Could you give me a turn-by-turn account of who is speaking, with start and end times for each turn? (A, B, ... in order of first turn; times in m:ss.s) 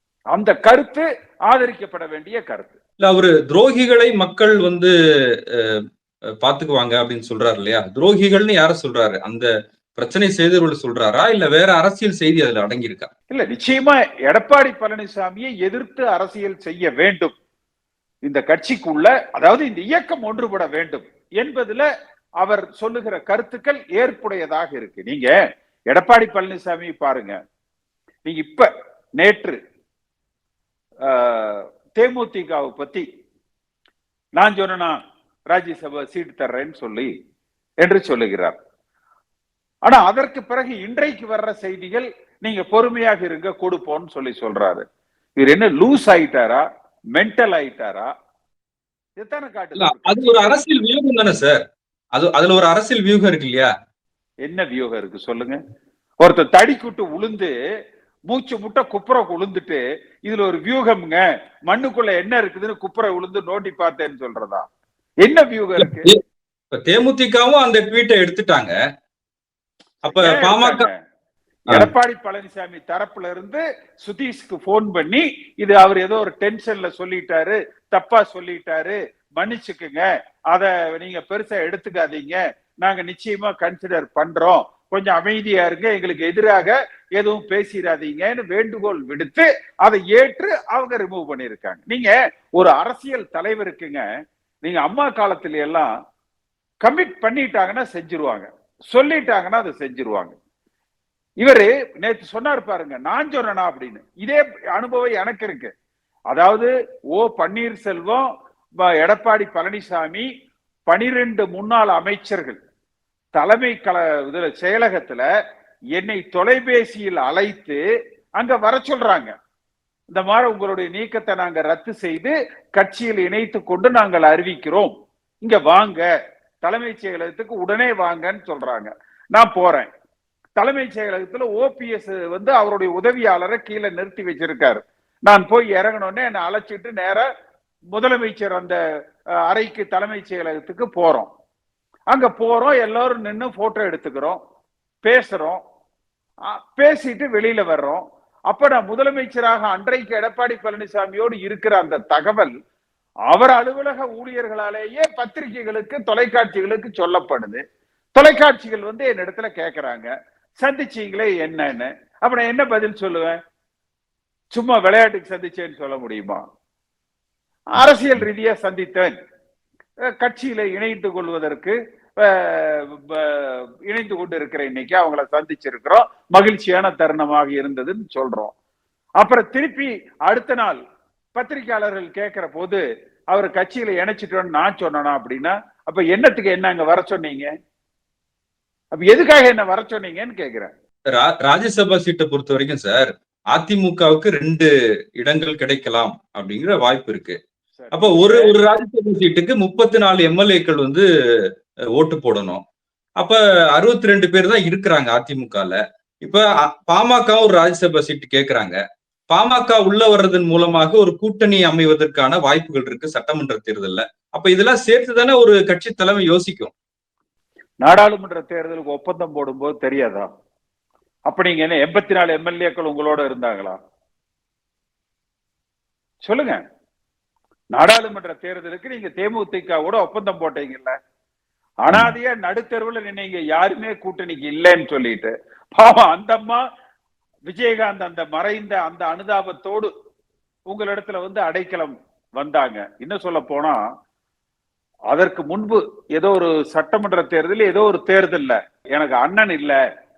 0:00.3-0:02.7 A
0:03.0-0:04.9 B
0:06.4-0:13.1 B
0:13.3-0:17.3 A
0:18.2-0:21.8 A
0:22.4-0:25.3 A
0:25.9-0:27.4 A
0:28.2-0:29.6 A
0:31.1-0:33.0 A
0:34.4-0:35.0 A
0:35.5-0:37.1 A
0:37.8-0:38.5 A
0:39.8-0:44.8 A
0:45.4-0:46.6 A
0:47.2-0:48.1 A
0:49.2-0:50.5 A
0:49.8-0:51.6 B
0:52.2-0:53.7 B
0:54.4-0:55.6 A
0:56.2-0:57.5 A
0:58.3-1:04.6 A
1:05.2-1:06.1 A
1:05.8-1:06.2 B
1:06.7-1:08.7 B
1:10.0-1:11.0 A
1:10.1-1:10.8 B
1:11.7-1:34.0 A
1:34.6-1:35.9 A
1:36.8-1:40.3 A
1:41.4-1:45.7 A
1:46.3-1:48.2 A
1:48.8-1:50.2 A
1:50.9-1:52.6 A
1:53.4-1:55.2 A
1:56.0-1:57.8 A
1:58.4-1:59.3 A
2:00.1-2:04.9 A
2:05.4-2:06.1 A
2:06.6-2:09.9 A
2:10.6-2:17.2 A
2:17.9-2:18.8 A
2:19.5-2:21.3 A
2:22.1-2:24.4 A
2:25.0-2:25.6 A
2:26.5-2:32.5 A
2:33.3-2:37.6 A
2:38.2-2:40.1 A
2:40.6-2:43.4 A
2:44.5-2:46.4 A
2:47.7-2:49.1 A
2:50.2-2:58.5 A
2:59.2-3:00.8 A
3:01.3-3:02.8 A
3:03.3-3:07.5 A
3:09.0-3:10.7 A
3:11.2-3:17.4 B
3:17.8-3:18.5 A
3:17.9-3:21.0 B
3:22.0-3:22.6 B
3:23.2-3:28.8 B
3:29.3-3:36.7 B
3:37.8-3:40.3 A
3:41.3-3:43.8 A
3:46.2-3:46.6 A
3:47.7-3:50.9 A
3:51.8-3:56.6 A
3:57.5-3:59.9 A
4:00.7-4:03.8 A
4:05.1-4:09.8 A